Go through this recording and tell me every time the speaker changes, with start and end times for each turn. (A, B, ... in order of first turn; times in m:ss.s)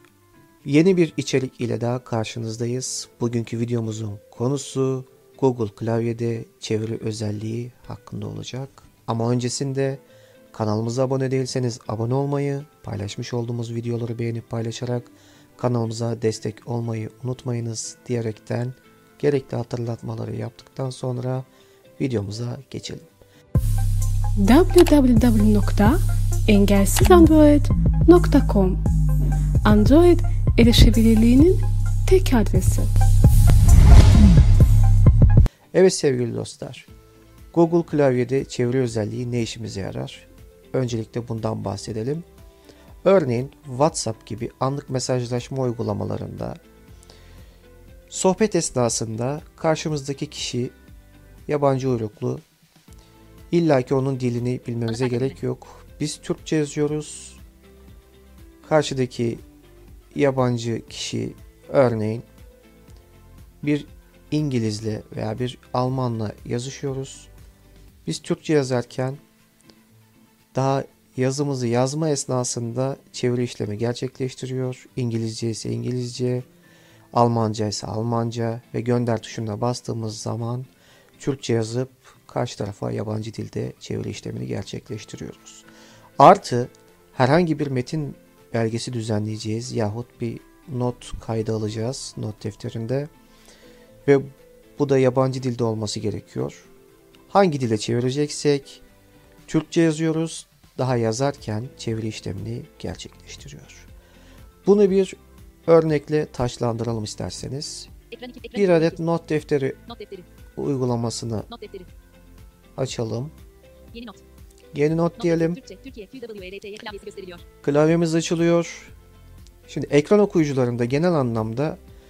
0:00.6-0:23.1 A
0:24.4-0:28.8 B
0:29.6-0:32.9 B
0:35.7-0:36.9 A
0:37.5-0:42.2 A
0:43.0-0:46.6 A
0:48.1-0:50.7 A
0:51.5-0:52.4 A
0:53.5-0:57.4 A
0:54.9-0:55.4 C
0:58.6-0:59.4 A
1:00.1-1:02.2 A
1:03.6-1:07.3 A
1:08.0-1:09.2 A
1:10.5-1:16.5 A
1:17.1-1:25.7 A
1:26.2-1:33.1 A
1:34.0-1:36.7 A
1:37.3-1:38.8 A
1:39.5-1:43.9 A
1:44.6-1:47.9 A
1:48.1-1:49.0 C
1:48.5-1:49.8 A
1:49.8-1:50.3 C
1:50.5-1:51.5 A
1:51.5-1:51.9 C
1:52.8-1:53.3 A
1:53.9-1:54.2 C
1:54.7-1:55.6 A
1:55.2-1:57.4 C
1:57.6-1:58.9 A
1:59.7-2:01.8 A